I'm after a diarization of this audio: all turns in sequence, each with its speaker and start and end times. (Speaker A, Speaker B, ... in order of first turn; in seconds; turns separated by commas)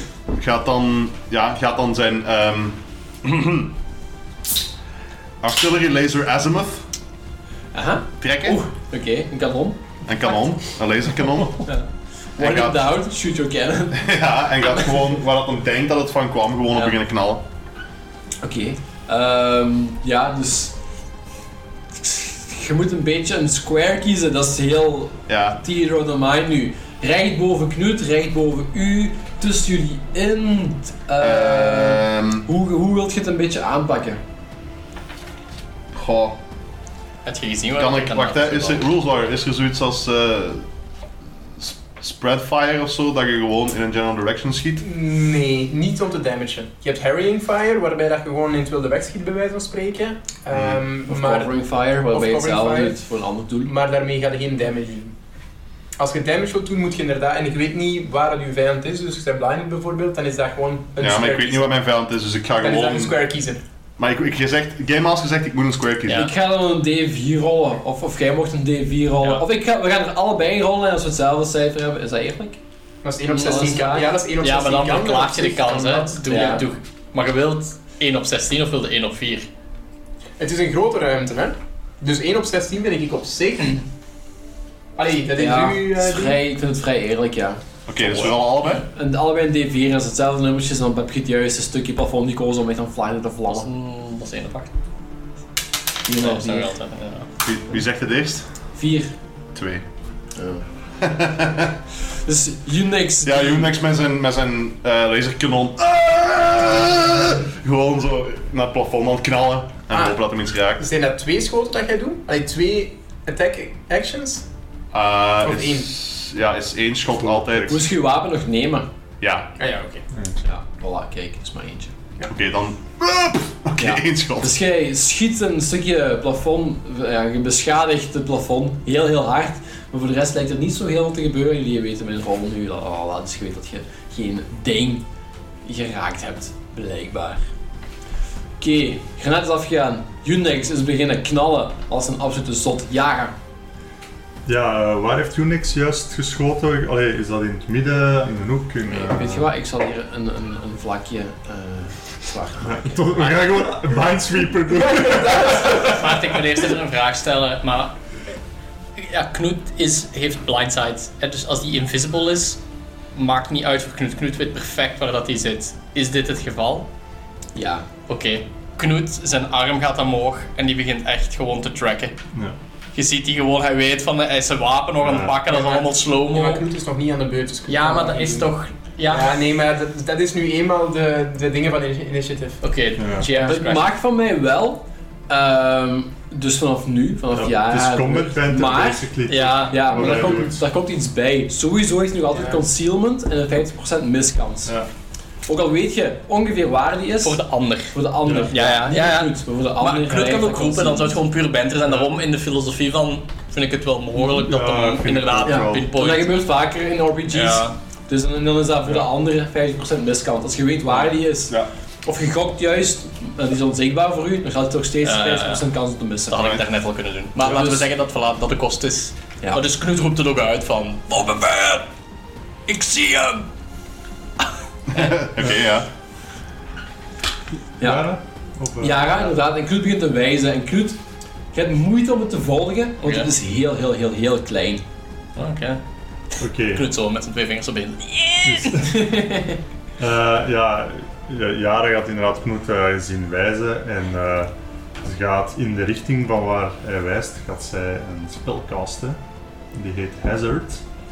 Speaker A: 0.3-3.7, Speaker A: 5.4-6.8, Speaker B: 7.7-9.8, Speaker A: 8.2-8.6, Speaker A: 10.1-11.7, Speaker B: 12.4-14.1, Speaker A: 12.4-12.9, Speaker A: 13.9-17.4, Speaker B: 18.4-20.8, Speaker B: 21.9-34.2, Speaker A: 25.3-25.6, Speaker A: 31.2-32.5, Speaker A: 35.9-36.4, Speaker C: 37.2-38.9, Speaker A: 37.8-40.7, Speaker A: 41.6-44.8, Speaker D: 44.8-53.0, Speaker B: 51.0-53.7, Speaker D: 53.6-55.1, Speaker D: 56.0-61.7, Speaker A: 61.0-63.2, Speaker D: 62.6-63.6, Speaker A: 64.0-66.3, Speaker B: 66.1-72.6, Speaker D: 73.0-76.6, Speaker B: 73.3-74.2, Speaker C: 74.4-79.5, Speaker B: 76.3-76.7, Speaker D: 80.4-83.8, Speaker D: 85.0-86.4, Speaker B: 85.3-87.6, Speaker A: 87.9-88.8, Speaker C: 88.2-88.7, Speaker B: 88.7-93.7, Speaker C: 93.5-94.7, Speaker B: 96.1-96.7, Speaker C: 96.2-97.3, Speaker A: 97.4-98.4, Speaker B: 98.8-99.1, Speaker A: 99.5-99.8, Speaker B: 100.4-100.7, Speaker A: 101.0-101.7, Speaker B: 102.2-103.7, Speaker A: 103.2-110.8, Speaker D: 109.9-110.2, Speaker D: 110.8-114.4, Speaker A: 114.9-117.8, Speaker D: 115.4-115.9, Speaker E: 117.2-117.8, Speaker B: 117.7-118.9, Speaker A: 119.2-119.6, Speaker D: 119.6-120.0, Speaker B: 120.4-121.9, Speaker A: 122.3-124.6, Speaker B: 123.8-135.1, Speaker B: 135.6-137.4, Speaker B: 138.6-143.4, Speaker E: 144.5-149.5, Speaker B: 148.9-153.4, Speaker E: 152.8-155.9, Speaker D: 154.7-156.0, Speaker C: 155.4-158.0, Speaker C: 159.0-162.6, Speaker C: 163.2-166.9, Speaker B: 167.6-167.9, Speaker C: 168.1-172.2, Speaker C: 172.9-176.7, Speaker E: 175.0-175.4, Speaker D: 175.5-178.5, Speaker C: 177.7-179.4, Speaker D: 179.1-182.6, Speaker C: 182.6-183.9, Speaker E: 183.0-183.3, Speaker B: 183.4-189.1, Speaker E: 187.3-190.6, Speaker C: 189.3-189.8, Speaker B: 189.7-194.7, Speaker D: 190.0-190.4, Speaker B: 195.5-201.2, Speaker C: 197.2-197.9, Speaker E: 198.2-198.5, Speaker C: 198.5-206.4, Speaker E: 204.2-205.9, Speaker B: 205.4-216.6, Speaker C: 207.3-207.8, Speaker C: 215.0-215.7, Speaker C: 216.3-221.9, Speaker A: 216.4-216.6, Speaker B: 217.4-217.9, Speaker C: 222.7-223.5, Speaker A: 224.9-225.9, Speaker B: 227.8-228.1, Speaker E: 227.8-229.1, Speaker B: 228.8-231.0, Speaker B: 231.5-234.8, Speaker C: 233.0-233.3, Speaker C: 235.4-235.8, Speaker E: 236.4-236.9, Speaker C: 236.6-238.9, Speaker E: 238.4-239.1, Speaker B: 238.8-239.6, Speaker E: 240.0-249.2, Speaker E: 249.7-250.8